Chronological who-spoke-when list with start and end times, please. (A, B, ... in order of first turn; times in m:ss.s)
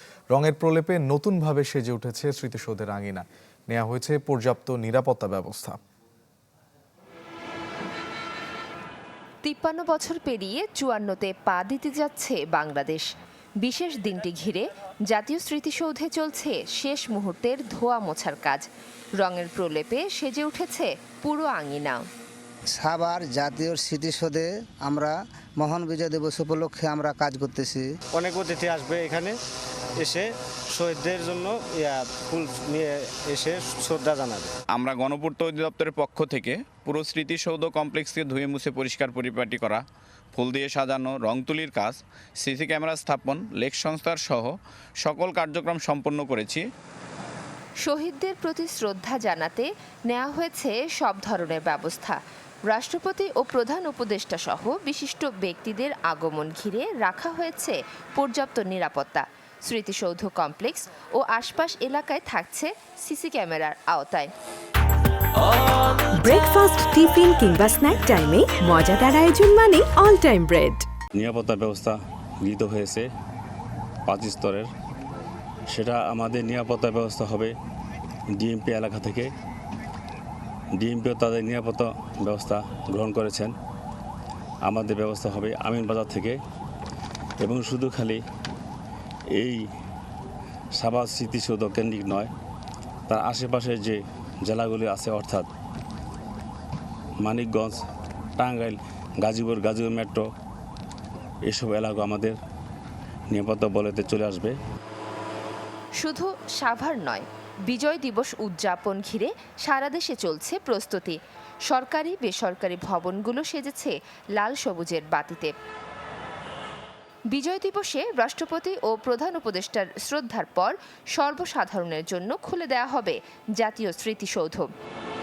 0:00.3-0:05.8 A
0:09.4-0:13.1 B
0:13.6-0:18.6 B
0:19.2-0:22.0 B
0:22.7-0:27.9 C
0:28.1-0:29.4 D
0:30.0-0:34.5 D
0:34.7-0:39.8 E
0:40.4-0:46.6 E
0:47.8-1:04.3 B
1:06.1-1:10.8 F
1:11.1-1:13.1 G
1:14.1-1:14.7 G
1:15.7-1:17.5 G
1:18.4-1:19.3 G
1:20.8-1:23.5 G
1:24.6-1:26.4 G
1:27.4-1:28.2 G
1:29.3-1:29.6 G
1:30.8-1:32.3 G
1:33.1-1:35.5 G
1:37.2-1:37.8 G
1:38.4-1:40.2 G
1:41.5-1:42.4 G
1:43.3-1:44.6 G
1:46.0-1:55.5 B
1:57.3-2:04.7 B